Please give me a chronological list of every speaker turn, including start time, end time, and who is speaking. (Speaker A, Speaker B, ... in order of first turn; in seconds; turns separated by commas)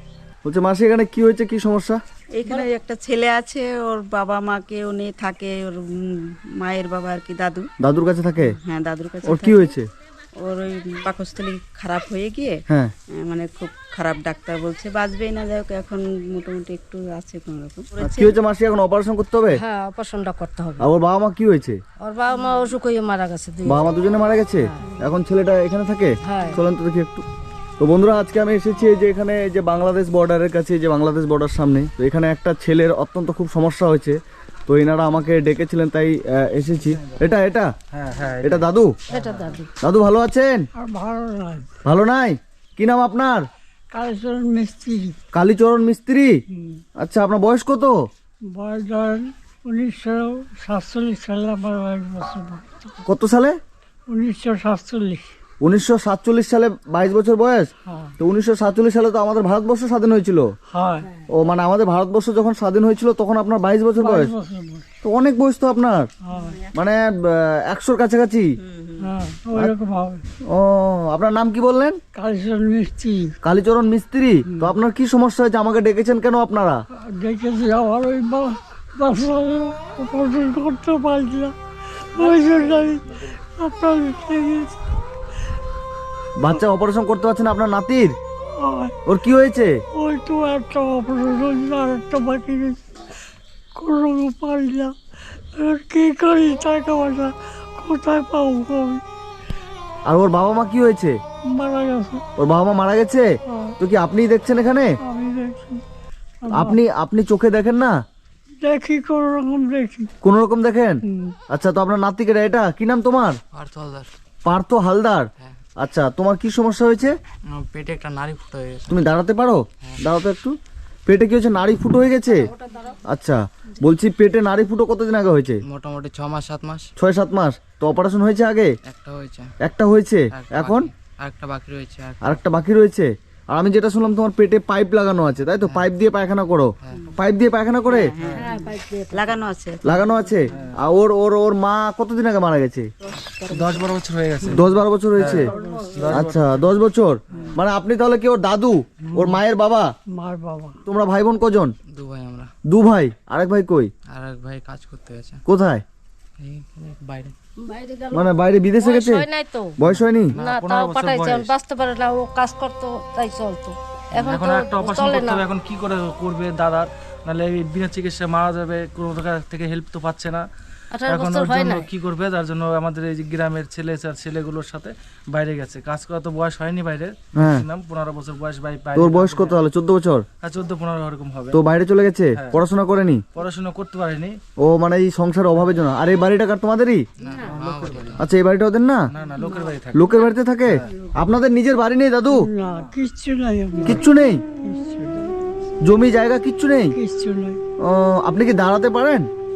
Speaker A: 0.4-2.0, Speaker B: 2.3-7.7, Speaker A: 7.8-8.6, Speaker B: 8.4-9.7, Speaker A: 9.2-9.9, Speaker B: 10.3-12.6, Speaker B: 13.2-18.4, Speaker A: 18.0-19.6, Speaker C: 19.5-20.9, Speaker A: 20.8-21.8, Speaker C: 22.0-23.9, Speaker A: 23.6-27.2, Speaker C: 24.6-24.9, Speaker C: 26.2-26.6, Speaker A: 27.8-37.7, Speaker D: 37.9-39.6, Speaker A: 38.4-38.9, Speaker C: 39.1-39.7, Speaker A: 39.8-40.6, Speaker E: 40.8-41.7, Speaker A: 41.8-43.5, Speaker E: 43.9-45.2, Speaker A: 45.3-46.3, Speaker A: 47.0-48.0, Speaker E: 48.5-52.9, Speaker A: 53.0-53.6, Speaker E: 54.1-55.2, Speaker A: 55.6-60.5, Speaker E: 57.9-58.1, Speaker E: 60.7-61.1, Speaker A: 61.3-64.3, Speaker E: 64.0-64.9, Speaker A: 65.0-66.1, Speaker E: 66.2-66.6, Speaker B: 66.3-66.7, Speaker A: 66.7-68.5, Speaker B: 68.6-69.0, Speaker E: 69.0-70.2, Speaker A: 70.5-72.0, Speaker E: 72.1-73.3, Speaker A: 73.4-76.8, Speaker E: 77.0-81.5, Speaker E: 82.1-84.8, Speaker A: 86.4-88.1, Speaker E: 88.5-89.0, Speaker A: 89.0-89.7, Speaker E: 90.0-92.8, Speaker E: 93.7-94.9, Speaker E: 95.5-99.0, Speaker A: 100.1-101.1, Speaker E: 101.5-102.2, Speaker A: 102.4-103.3, Speaker E: 103.5-103.7, Speaker A: 103.8-104.9, Speaker E: 105.0-105.8, Speaker E: 106.4-106.8, Speaker A: 106.5-108.0, Speaker E: 108.6-110.1, Speaker A: 110.2-111.0, Speaker E: 111.1-111.3, Speaker A: 111.5-113.4, Speaker F: 113.6-114.0, Speaker A: 114.5-115.3, Speaker A: 115.8-117.1, Speaker F: 117.6-118.9, Speaker A: 118.9-120.5, Speaker A: 121.1-122.5, Speaker C: 122.3-123.0, Speaker A: 123.0-125.6, Speaker F: 125.7-126.9, Speaker A: 127.0-128.7, Speaker F: 128.9-129.4, Speaker A: 129.6-130.9, Speaker F: 130.3-132.3, Speaker A: 132.2-138.1, Speaker B: 137.8-140.4, Speaker D: 138.2-138.5, Speaker C: 138.4-139.3, Speaker A: 139.8-142.9, Speaker D: 140.5-140.8, Speaker B: 143.0-143.9, Speaker D: 143.5-146.7, Speaker A: 144.5-145.5, Speaker E: 145.4-146.0, Speaker A: 146.1-149.9, Speaker E: 149.1-149.4, Speaker E: 150.1-150.8, Speaker A: 150.8-151.7, Speaker F: 152.0-152.5, Speaker A: 152.7-153.9, Speaker F: 154.1-155.3, Speaker A: 155.4-155.8, Speaker F: 156.4-157.3, Speaker C: 157.6-158.3, Speaker A: 158.1-159.2, Speaker C: 158.8-159.8, Speaker A: 159.8-160.3, Speaker D: 160.3-161.5, Speaker C: 160.3-165.4, Speaker D: 164.1-170.4, Speaker C: 170.9-171.9, Speaker D: 171.1-179.6, Speaker A: 177.3-177.6, Speaker A: 178.9-180.2, Speaker D: 180.4-181.6, Speaker A: 181.5-183.2, Speaker D: 183.3-184.4, Speaker A: 184.6-187.0, Speaker F: 187.2-188.2, Speaker D: 187.4-188.2, Speaker A: 188.2-189.0, Speaker D: 189.1-190.2, Speaker A: 189.9-192.4, Speaker B: 190.9-191.2, Speaker E: 192.3-194.0, Speaker A: 193.8-194.4, Speaker E: 194.6-195.2, Speaker A: 195.8-196.9, Speaker E: 196.9-197.6, Speaker A: 197.8-199.3